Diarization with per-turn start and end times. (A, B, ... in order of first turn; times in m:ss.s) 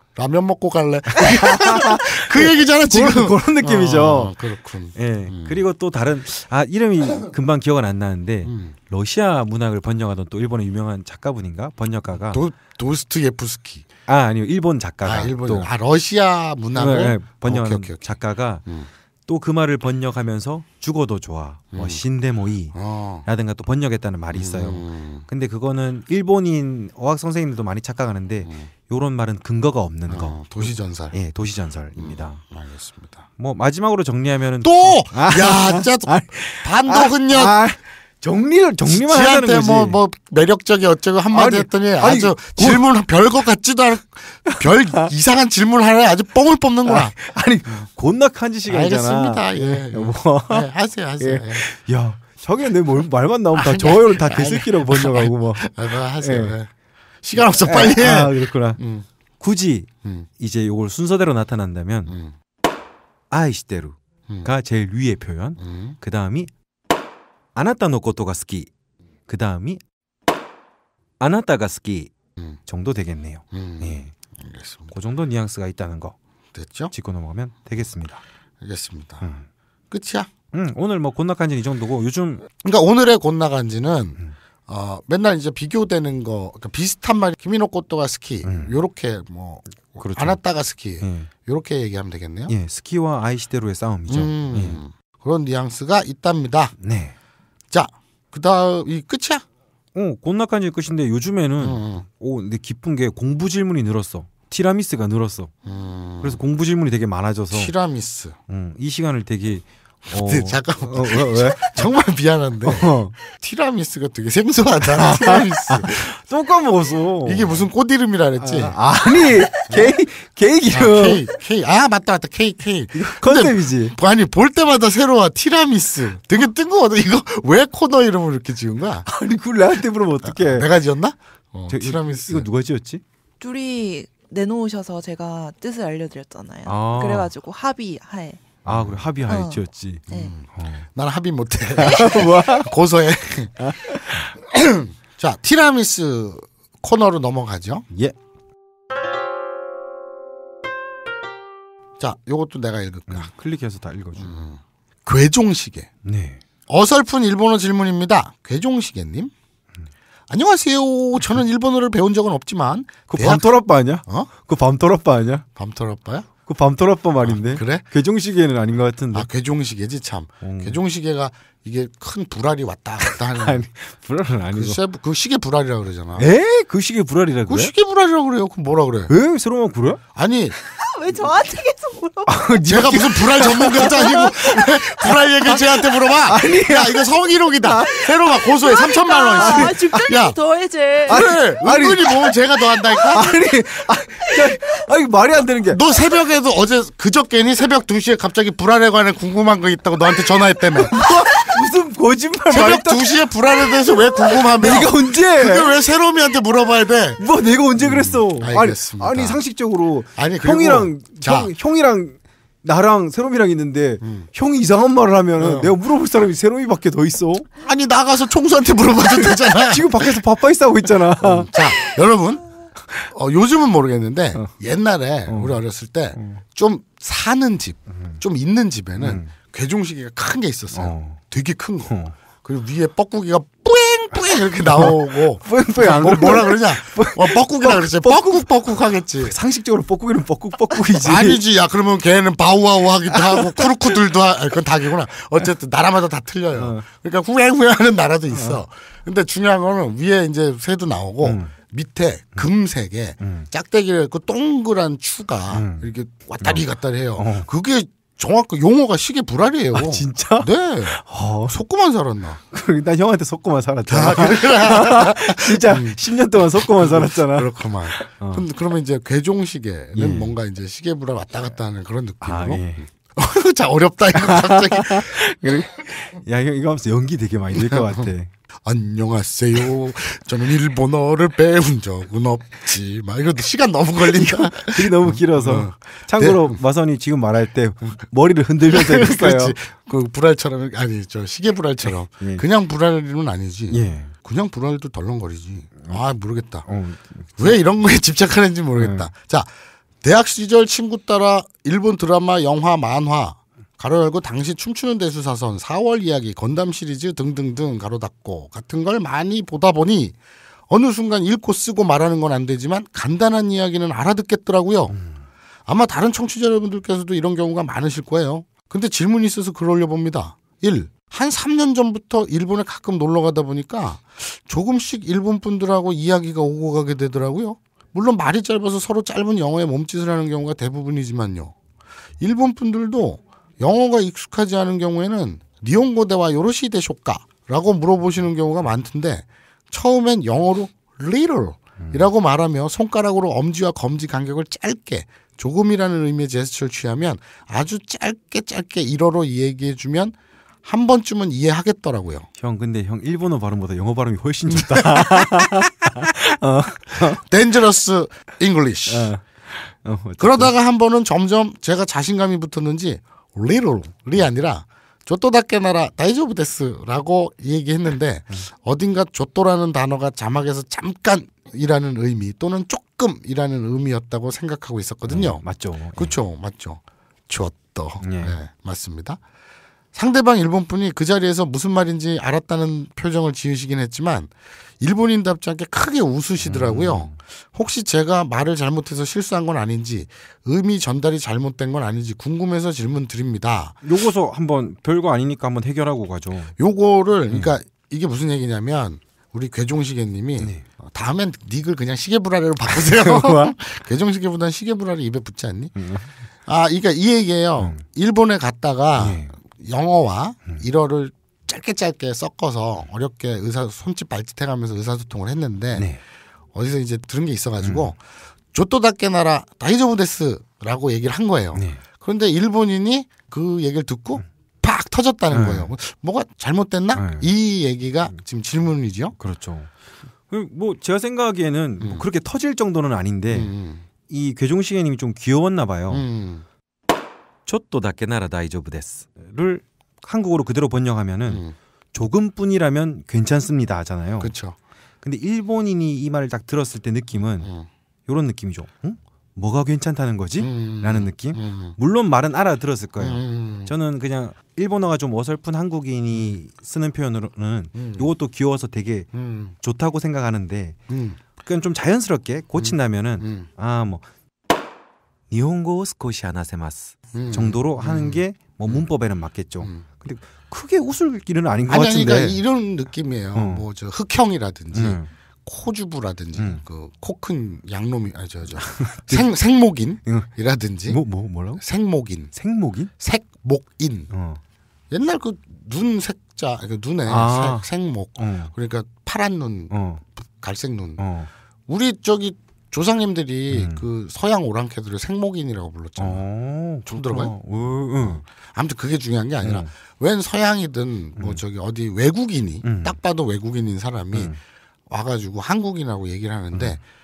0:00.1-0:05.6 A
0:01.1-0:04.4 B
0:04.9-0:12.4 B
0:08.4-0:08.8 A
0:12.2-0:13.8 A
0:14.1-0:15.7 B
0:15.0-0:18.9 A
0:16.7-0:18.6 B
0:19.3-0:32.4 B
0:21.7-0:22.0 A
0:22.7-0:23.3 A
0:24.3-0:25.2 A
0:30.1-0:31.2 A
0:32.0-0:33.2 A
0:33.4-0:40.0 B
0:34.6-0:37.6 A
0:38.8-0:47.1 A
0:41.3-0:42.8 B
0:44.4-0:45.1 B
0:46.8-0:56.6 B
0:48.7-0:51.6 A
0:53.5-0:56.7 A
0:57.2-0:59.1 A
0:57.4-0:58.8 B
0:59.4-1:02.2 B
1:00.0-1:00.3 A
1:02.0-1:02.3 A
1:03.3-1:06.5 B
1:05.6-1:06.0 A
1:07.5-1:08.7 B
1:09.3-1:09.8 B
1:11.2-1:12.1 B
1:12.6-1:14.1 B
1:13.5-1:14.9 A
1:14.9-1:16.2 B
1:16.5-1:16.9 A
1:16.9-1:18.2 B
1:18.6-1:19.3 A
1:19.9-1:20.3 A
1:20.5-1:22.5 B
1:22.6-1:32.5 A
1:28.4-1:28.8 B
1:29.9-1:30.4 B
1:31.0-1:31.3 B
1:32.5-1:34.8 B
1:34.1-1:36.7 A
1:36.8-1:37.1 B
1:37.7-1:39.4 A
1:39.9-1:45.5 B
1:41.6-1:42.0 A
1:45.6-1:46.4 A
1:46.2-1:47.7 B
1:47.5-1:48.4 A
1:48.5-1:51.9 B
1:50.0-1:56.1 A
1:52.6-1:53.1 B
1:54.9-1:57.7 B
1:57.2-1:58.8 A
1:58.4-2:01.2 B
2:00.7-2:09.0 A
2:02.9-2:04.0 B
2:09.0-2:10.7 B
2:10.2-2:12.5 A
2:11.7-2:13.0 B
2:13.4-2:18.6 C
2:16.6-2:17.3 B
2:18.6-2:19.0 A
2:18.6-2:20.8 B
2:19.3-2:20.3 C
2:20.1-2:27.8 A
2:21.8-2:22.7 B
2:23.6-2:24.3 B
2:27.9-2:28.2 B
2:32.0-2:33.3 A
2:33.1-2:34.4 B
2:34.2-2:35.9 A
2:36.0-2:36.4 B
2:36.7-2:39.3 A
2:40.3-2:43.5 A
2:43.1-2:45.4 B
2:44.0-2:44.3 A
2:45.6-2:46.3 A
2:46.5-2:49.3 B
2:47.2-2:47.8 A
2:49.1-2:53.6 A
2:50.4-2:50.8 B
2:53.0-2:54.8 B
2:54.5-2:56.3 A
2:56.2-2:57.7 B
2:57.5-2:59.1 A
2:59.1-3:00.0 B
3:00.1-3:00.6 A
3:00.6-3:02.5 C
3:02.2-3:07.1 B
3:02.6-3:10.4 A
3:03.9-3:04.2 C
3:07.6-3:08.1 B
3:07.9-3:11.3 C
3:09.4-3:10.0 B
3:11.1-3:13.4 A
3:11.1-3:15.8 B
3:15.7-3:21.6 A
3:20.7-3:25.7 B
3:22.5-3:27.2 A
3:27.2-3:37.5 B
3:27.8-3:29.4 A
3:30.1-3:31.5 A
3:34.0-3:34.3 A
3:35.4-3:35.8 A
3:37.6-3:40.2 A
3:39.0-3:41.9 B
3:41.2-3:42.4 A
3:43.0-3:59.4 A
3:45.3-3:45.6 B
3:46.1-3:46.4 B
3:47.9-3:48.2 B
3:49.0-3:49.3 B
3:50.7-3:51.2 B
3:51.9-3:52.2 B
3:54.6-4:01.4 B
4:00.9-4:22.4 A
4:03.1-4:03.6 B
4:06.5-4:06.9 B
4:08.3-4:08.6 B
4:11.2-4:11.5 B
4:13.2-4:13.5 B
4:15.5-4:15.9 B
4:17.2-4:17.5 B
4:19.7-4:21.5 B
4:22.5-4:28.4 B
4:23.9-4:35.6 A
4:29.9-4:30.4 B
4:32.2-4:32.9 B
4:34.1-4:38.3 B
4:37.5-4:38.1 A
4:38.6-4:46.6 A
4:44.0-4:49.6 B
4:48.7-4:56.7 A
4:53.7-4:54.1 B
4:56.6-4:57.5 B
4:57.4-5:10.2 A
4:58.8-4:59.1 B
5:10.7-5:15.0 A
5:14.9-5:15.2 B
5:15.7-5:31.5 A
5:32.2-5:52.3 A
5:41.8-5:42.1 B
5:52.4-5:57.2 B
5:54.5-5:56.1 A
5:56.9-5:59.1 A
5:58.9-6:00.5 B
6:00.2-6:19.2 A
6:15.1-6:16.1 B
6:18.0-6:18.4 B
6:19.9-6:33.8 A
6:26.4-6:27.2 B
6:33.8-6:36.5 B
6:36.6-6:45.8 A
6:37.3-6:37.5 B
6:42.7-6:43.5 B
6:45.8-6:46.1 B
6:46.4-6:55.9 A
6:47.6-6:47.8 B
6:49.0-6:49.3 B
6:55.7-6:56.0 B
6:56.5-6:58.0 A
6:57.6-6:57.9 B
6:58.5-7:09.1 A
7:01.5-7:01.8 B
7:05.3-7:05.7 B
7:06.9-7:07.3 B
7:09.2-7:09.7 B
7:10.3-7:13.5 B
7:11.8-7:12.0 A
7:13.3-7:13.8 A
7:14.1-7:16.0 B
7:15.9-7:16.4 A
7:17.4-7:24.3 B
7:21.3-7:21.5 A
7:24.2-7:24.6 A
7:25.0-7:27.5 B
7:27.4-7:27.7 A
7:28.1-7:40.8 B
7:30.4-7:31.8 A
7:33.0-7:33.7 A
7:37.7-7:38.1 A
7:39.1-7:39.5 A
7:40.9-7:41.2 A
7:41.4-7:44.0 B
7:42.6-7:43.5 A
7:45.3-7:52.4 B
7:47.1-7:48.8 A
7:51.7-8:01.0 A
7:53.3-7:53.6 B
7:54.7-7:55.1 B
7:56.4-7:56.6 B
7:58.6-7:59.3 B
8:00.9-8:01.6 B
8:01.6-8:02.3 A
8:02.3-8:02.9 B
8:03.0-8:04.1 A
8:04.1-8:04.4 B
8:04.9-8:11.0 A
8:07.0-8:08.5 B
8:09.7-8:10.0 B
8:11.0-8:11.3 B
8:11.7-8:16.2 A
8:13.5-8:13.8 B
8:16.0-8:18.2 B
8:16.9-8:17.3 A
8:18.0-8:24.3 A
8:19.4-8:19.7 B
8:21.2-8:21.4 B
8:22.6-8:23.0 B
8:24.1-8:24.4 B
8:24.9-8:26.8 A
8:26.5-8:26.8 B